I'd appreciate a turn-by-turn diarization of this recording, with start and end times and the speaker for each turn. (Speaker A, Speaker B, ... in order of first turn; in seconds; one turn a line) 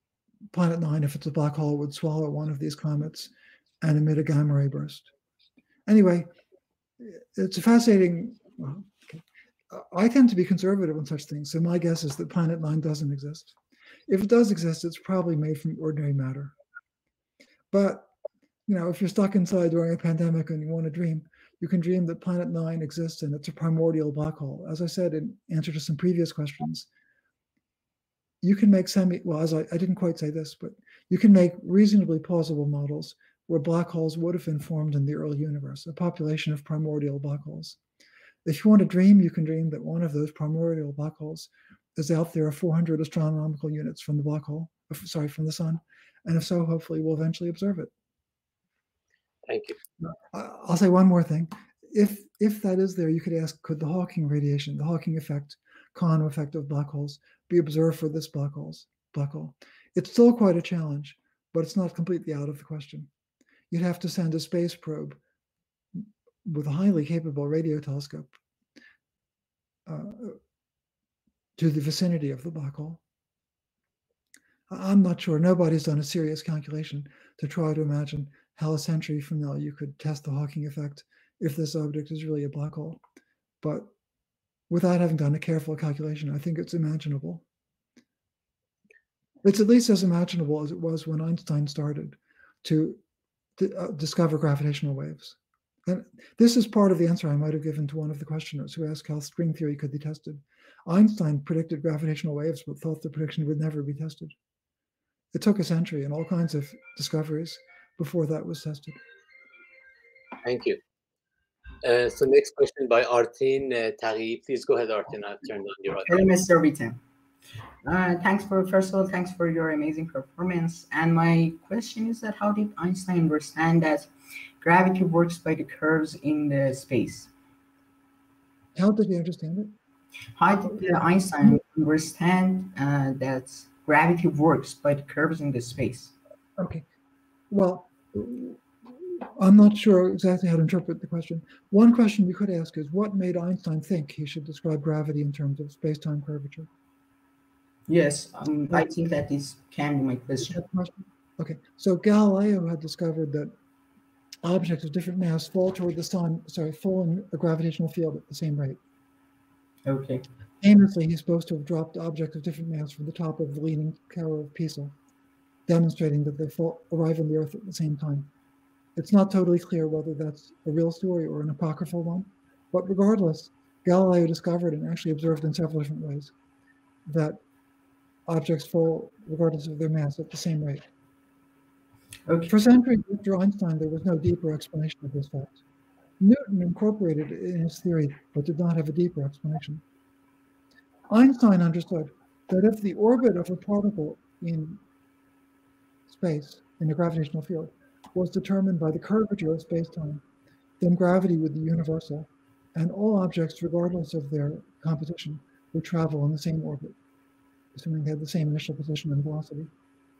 Speaker A: 0.5-5.1
Speaker A: 5.8-6.3
Speaker A: 7.0-13.6
Speaker A: 14.1-16.5
Speaker A: 17.7-18.1
Speaker A: 18.7-26.9
Speaker A: 28.4-37.8
Speaker A: 38.4-47.9
Speaker B: 49.5-49.8
Speaker A: 50.0-63.1
Speaker A: 63.7-65.2
Speaker A: 65.9-68.4
Speaker A: 69.8-70.4
Speaker A: 71.5-73.0
Speaker A: 74.7-83.0
Speaker A: 83.6-83.9
Speaker A: 84.7-87.4
Speaker A: 89.4-93.0
Speaker A: 93.6-104.3
Speaker A: 105.3-109.0
Speaker B: 110.4-110.8
Speaker B: 111.8-116.3
Speaker C: 116.0-117.0
Speaker C: 117.8-127.3
Speaker A: 128.7-129.7
Speaker C: 130.4-136.1
Speaker A: 130.8-131.6
Speaker A: 136.6-136.8
Speaker A: 137.5-146.7
Speaker C: 147.9-150.6
Speaker A: 150.4-153.5
Speaker A: 154.4-158.8
Speaker C: 159.8-160.2
Speaker A: 160.6-164.9
Speaker A: 165.7-168.3
Speaker A: 168.9-176.3
Speaker A: 177.1-177.4
Speaker A: 178.3-180.8
Speaker C: 182.3-182.5
Speaker A: 182.5-185.6
Speaker A: 186.2-189.8
Speaker A: 191.1-194.8
Speaker A: 196.1-200.2
Speaker A: 200.8-206.9
Speaker A: 207.7-209.7